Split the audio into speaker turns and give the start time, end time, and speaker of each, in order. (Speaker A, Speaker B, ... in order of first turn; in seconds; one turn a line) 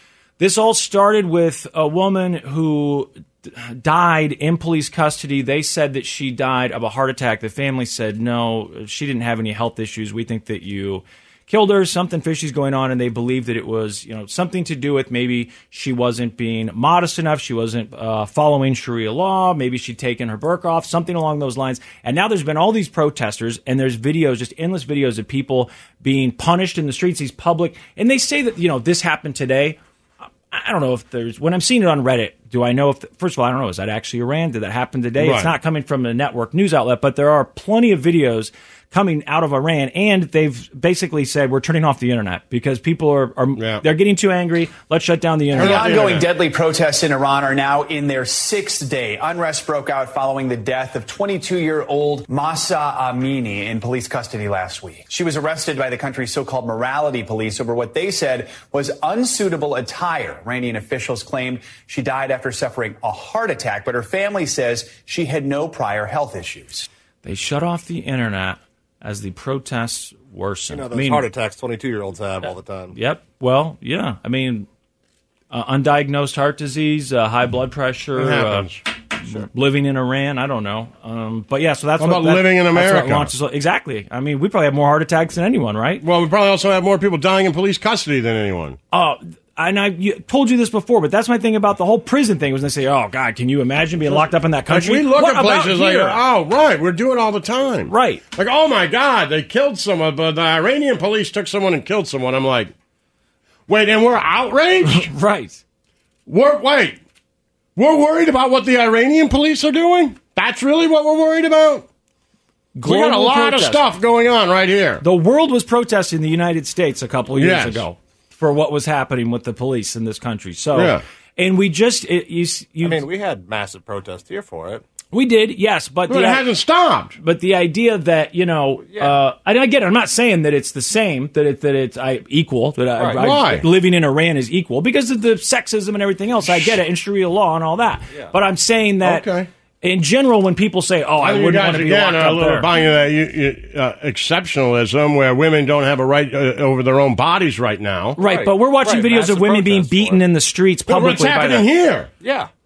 Speaker A: 0.4-29.8
Speaker A: 30.5-46.1
Speaker B: 35.2-35.5
Speaker B: 43.5-43.8
Speaker B: 45.5-46.3
Speaker C: 45.6-66.9
Speaker A: 67.2-71.3
Speaker D: 70.7-72.9
Speaker A: 72.9-74.7
Speaker A: 75.5-78.7
Speaker B: 78.2-78.8
Speaker A: 79.3-86.0
Speaker B: 82.0-83.3
Speaker B: 86.0-88.8
Speaker A: 88.9-96.2
Speaker B: 94.7-102.7
Speaker A: 97.9-98.2
Speaker B: 103.7-105.1
Speaker A: 104.8-105.6
Speaker B: 106.3-107.0
Speaker B: 107.8-111.8
Speaker A: 112.7-113.8
Speaker B: 112.8-115.0
Speaker A: 115.0-123.1
Speaker B: 117.3-117.8
Speaker B: 120.7-121.0
Speaker D: 122.8-124.8
Speaker A: 125.1-126.5
Speaker B: 126.1-127.2
Speaker A: 127.2-139.3
Speaker D: 128.8-129.2
Speaker B: 133.2-133.7
Speaker B: 136.5-136.7
Speaker B: 139.0-139.5
Speaker A: 139.8-142.7
Speaker B: 141.2-148.2
Speaker D: 148.2-150.2
Speaker A: 148.2-151.7
Speaker B: 150.9-152.1
Speaker D: 152.2-152.5